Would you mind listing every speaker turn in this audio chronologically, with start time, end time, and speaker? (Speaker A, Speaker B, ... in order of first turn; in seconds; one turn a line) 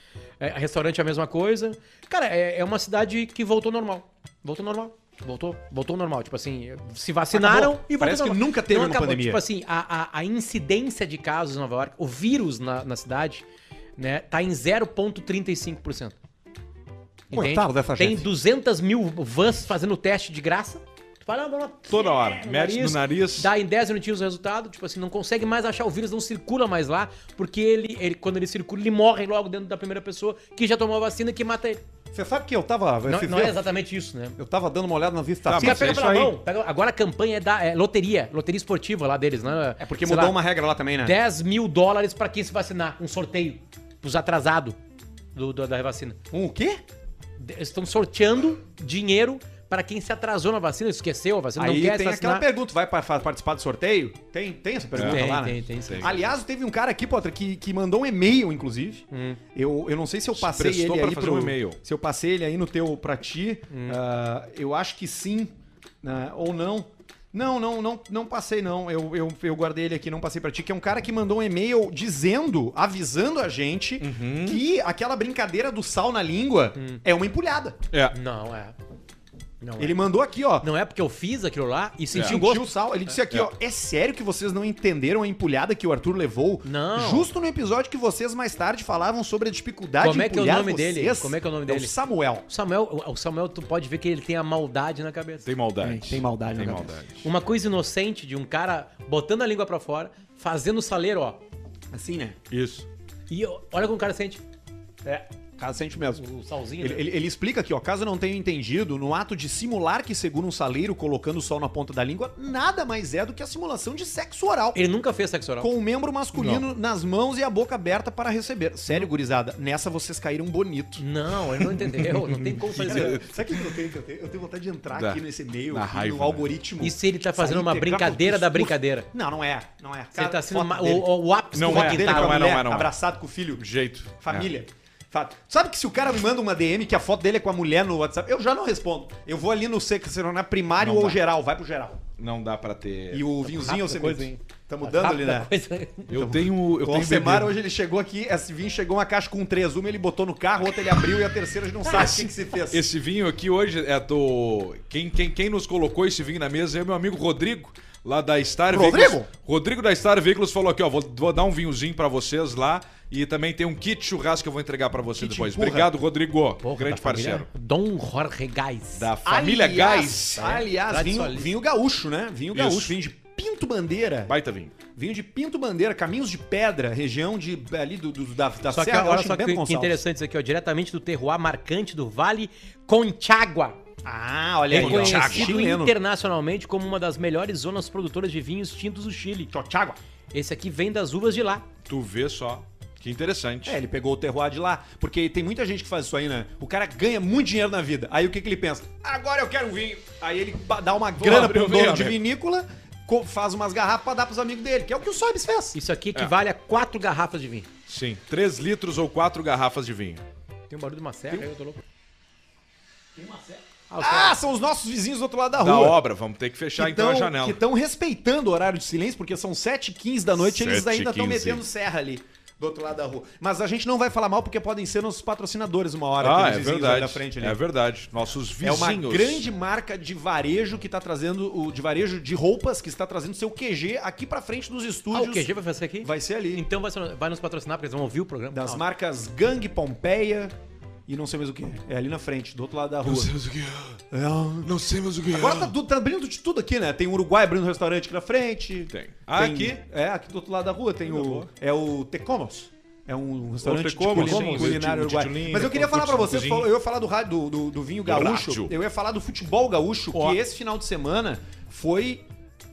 Speaker A: 0.4-13.4
Speaker B: 7.3-9.4
Speaker A: 14.0-16.2
Speaker A: 17.3-31.8
Speaker B: 17.3-18.3
Speaker C: 21.9-23.5
Speaker B: 32.1-33.6
Speaker A: 33.0-34.4
Speaker B: 34.4-36.2
Speaker C: 35.5-36.4
Speaker A: 35.5-40.4
Speaker B: 39.8-41.1
Speaker A: 41.0-44.8
Speaker A: 45.3-46.2
Speaker B: 46.3-46.8
Speaker A: 47.4-52.5
Speaker B: 51.6-77.8
Speaker C: 54.9-55.3
Speaker A: 55.0-56.2
Speaker C: 55.9-56.1
Speaker A: 59.1-59.4
Speaker C: 60.3-61.8
Speaker A: 63.7-64.0
Speaker C: 74.0-74.6
Speaker A: 76.8-77.0
Speaker C: 77.9-78.2
Speaker A: 78.1-78.8
Speaker A: 79.6-80.0
Speaker B: 79.8-80.7
Speaker A: 80.6-82.7
Speaker C: 82.1-82.4
Speaker B: 82.2-92.5
Speaker A: 86.6-87.3
Speaker A: 90.0-92.0
Speaker A: 92.5-95.5
Speaker C: 95.5-97.2
Speaker B: 95.8-97.0
Speaker A: 97.2-101.4
Speaker B: 101.9-102.4
Speaker C: 102.5-102.9
Speaker A: 103.3-104.4
Speaker B: 105.0-106.2
Speaker A: 106.2-107.1
Speaker B: 106.8-114.8
Speaker A: 114.7-115.7
Speaker B: 115.6-121.0
Speaker A: 116.3-116.7
Speaker A: 121.0-123.3
Speaker C: 121.9-123.3
Speaker B: 122.7-133.7
Speaker C: 124.9-126.5
Speaker A: 126.8-129.1
Speaker A: 130.1-132.6
Speaker C: 131.5-132.9
Speaker C: 133.6-134.5
Speaker B: 134.2-142.0
Speaker C: 140.8-141.2
Speaker C: 142.2-143.2
Speaker B: 143.1-145.5
Speaker A: 143.4-146.2
Speaker C: 146.1-147.5
Speaker B: 146.2-152.9
Speaker A: 151.8-152.5
Speaker C: 152.7-167.5
Speaker B: 158.7-159.3
Speaker B: 165.2-165.9
Speaker A: 166.6-169.1
Speaker C: 168.9-170.5
Speaker B: 169.2-174.3
Speaker A: 170.4-171.5
Speaker C: 172.5-172.9
Speaker C: 174.3-174.7
Speaker B: 174.9-180.0
Speaker A: 178.7-183.8
Speaker B: 184.0-185.9
Speaker A: 184.7-189.5
Speaker C: 184.7-185.5
Speaker B: 189.5-190.0
Speaker A: 190.3-191.7
Speaker C: 191.9-193.8
Speaker B: 193.7-205.8
Speaker C: 201.2-202.2
Speaker A: 205.7-207.7
Speaker C: 207.9-210.2
Speaker A: 210.7-211.8
Speaker B: 213.2-216.0
Speaker A: 213.9-214.4
Speaker C: 215.6-217.6
Speaker B: 216.8-227.6
Speaker C: 220.4-221.6
Speaker C: 226.2-229.4
Speaker B: 228.6-235.5
Speaker A: 235.1-238.8
Speaker B: 236.0-236.7
Speaker B: 238.5-240.5
Speaker B: 241.1-243.3
Speaker C: 243.1-244.0
Speaker B: 244.1-244.7
Speaker C: 244.6-245.7
Speaker B: 245.3-262.2
Speaker C: 248.9-249.8
Speaker C: 251.1-251.5
Speaker C: 253.6-256.7
Speaker A: 254.2-254.8
Speaker C: 258.1-258.7
Speaker C: 260.1-260.4